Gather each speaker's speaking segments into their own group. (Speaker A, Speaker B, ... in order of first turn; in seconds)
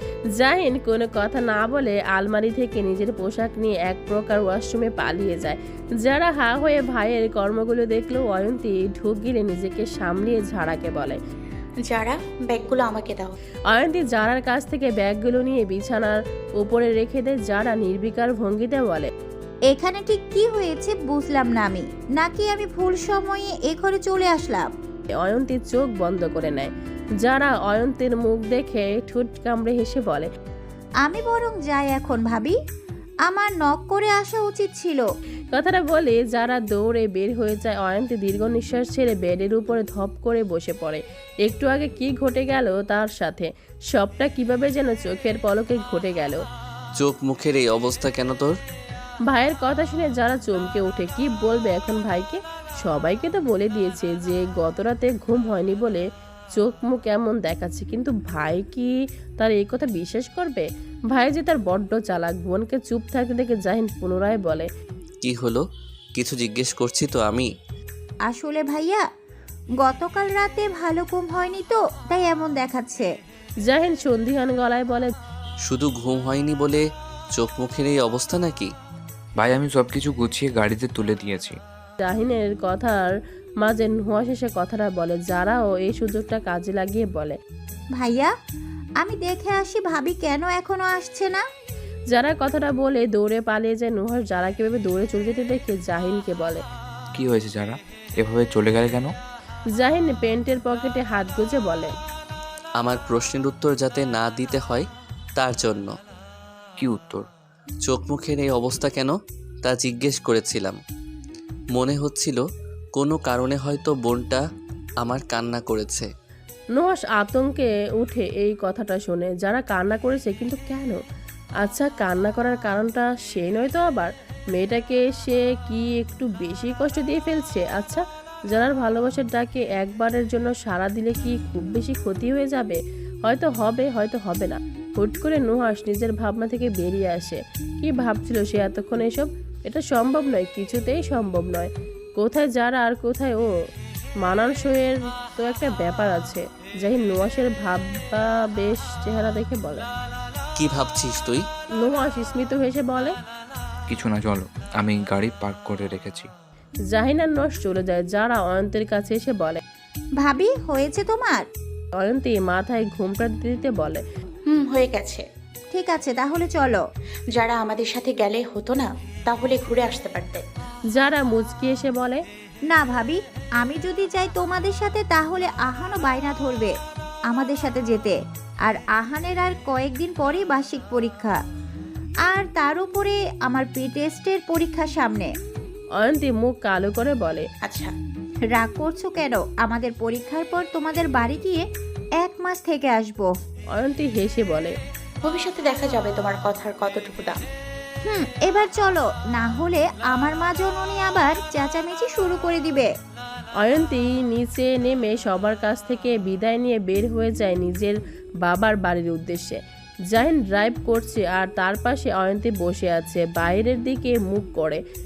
Speaker A: 0.4-11.2, 13.7-19.1, 25.2-30.3, 35.5-46.4, 49.3-64.7, 73.7-75.1, 82.0-87.4, 92.1-96.6, 99.8-101.9, 116.8-121.0, 121.6-143.5, 144.2-149.9, 151.8-153.2, 156.9-159.6, 162.0-164.0, 170.9-172.2, 186.0-187.5, 193.7-194.8, 203.6-214.8
Speaker B: 11.8-13.3, 164.5-165.2, 167.3-170.4, 187.6-187.9, 195.2-197.4
Speaker C: 19.7-24.7, 31.0-32.5, 33.3-35.1, 68.3-69.0, 69.8-73.1, 88.0-88.3, 89.0-91.4, 160.2-161.4, 165.7-166.8, 172.7-176.7, 177.3-178.2, 178.7-181.4, 182.3-185.3, 188.5-191.6, 192.2-193.3, 198.1-202.9
Speaker D: 47.0-48.5, 65.2-65.6, 66.2-67.5, 75.6-76.8, 77.3-78.7, 102.8-104.8, 105.4-106.0, 107.8-109.1, 109.6-110.8, 111.7-112.4, 113.0-114.4, 115.0-116.1, 150.6-151.5
Speaker E: 79.4-81.6, 97.1-99.1, 106.8-107.3, 153.9-156.3